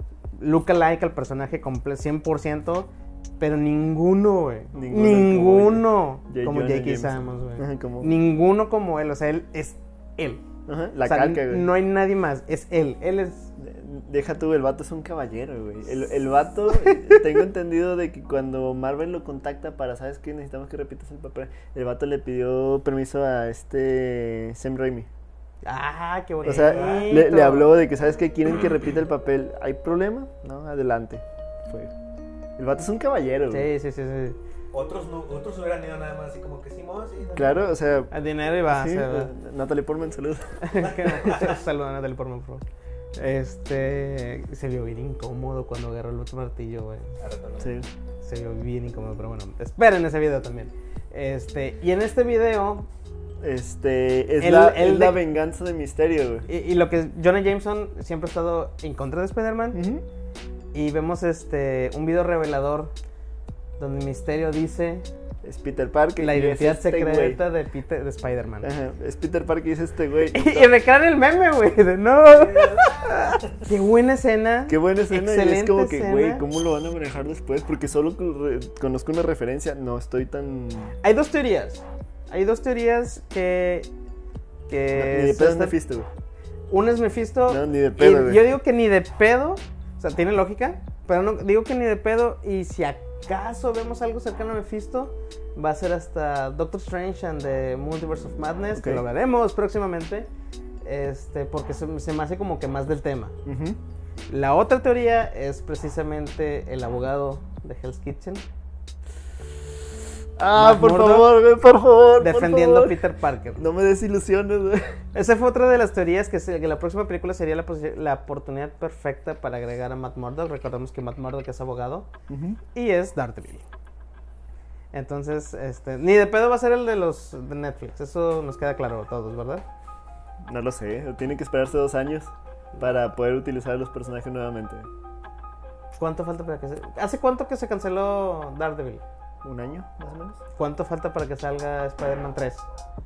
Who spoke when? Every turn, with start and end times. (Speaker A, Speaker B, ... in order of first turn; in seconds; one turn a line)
Speaker A: 0.3-10.4
Speaker B: 4.7-8.1
Speaker B: 10.7-11.7
Speaker A: 11.0-13.5
Speaker B: 13.6-25.1
Speaker A: 16.7-17.2
Speaker A: 25.6-27.7
Speaker B: 26.4-31.9
Speaker C: 26.5-27.3
Speaker B: 32.6-33.7
Speaker A: 33.5-34.4
Speaker C: 34.7-37.7
Speaker B: 37.4-38.1
Speaker A: 38.1-39.3
Speaker B: 38.7-40.7
Speaker A: 40.6-42.6
Speaker C: 40.8-41.6
Speaker A: 43.2-47.1
Speaker C: 47.2-47.8
Speaker B: 47.6-47.9
Speaker A: 48.2-52.9
Speaker B: 53.4-56.5
Speaker A: 54.4-55.2
Speaker A: 56.5-59.8
Speaker B: 59.7-60.0
Speaker A: 60.7-62.9
Speaker A: 63.8-65.1
Speaker B: 65.4-67.4
Speaker A: 66.2-68.7
Speaker B: 68.6-70.7
Speaker A: 70.3-76.4
Speaker C: 72.2-73.6
Speaker B: 74.7-81.0
Speaker A: 81.0-83.9
Speaker A: 84.7-85.8
Speaker B: 84.9-86.1
Speaker A: 86.7-100.3
Speaker B: 87.5-88.4
Speaker B: 98.7-99.0
Speaker A: 100.8-103.4
Speaker B: 103.5-103.8
Speaker A: 104.3-108.4
Speaker B: 110.4-113.0
Speaker A: 110.5-111.3
Speaker A: 112.2-113.7
Speaker B: 113.6-115.0
Speaker A: 115.1-122.1
Speaker B: 122.3-122.6
Speaker A: 122.7-123.7
Speaker A: 124.9-129.7
Speaker B: 130.5-134.9
Speaker A: 136.0-139.0
Speaker B: 139.4-140.4
Speaker A: 140.6-142.7